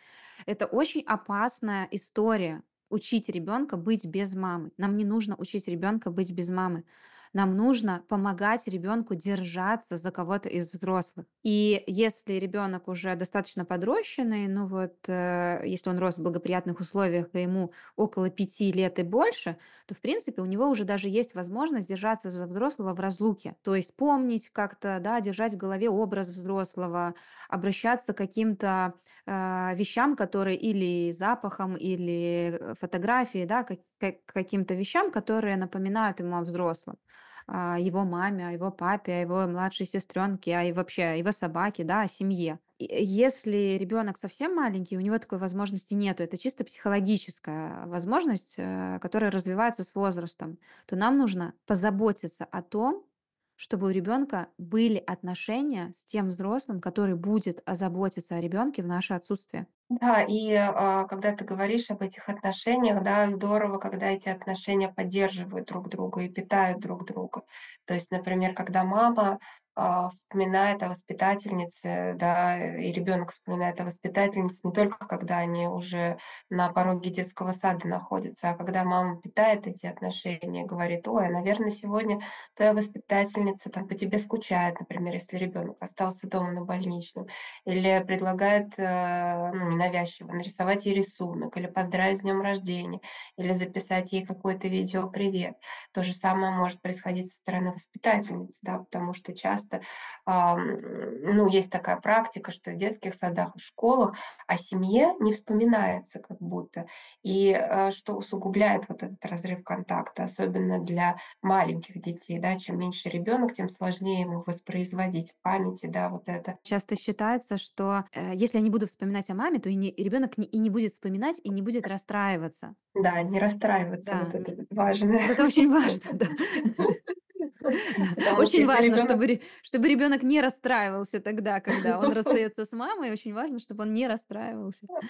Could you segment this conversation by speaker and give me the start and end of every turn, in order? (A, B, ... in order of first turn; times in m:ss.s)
0:00.5-0:53.0 A
0:53.6-0:59.7 A
1:00.0-1:56.6 B
1:56.7-2:02.8 A
2:03.0-2:05.4 B
2:04.0-2:04.5 A
2:05.2-2:06.9 A
2:07.6-2:09.2 B
2:07.8-2:14.9 A
2:11.7-2:12.3 B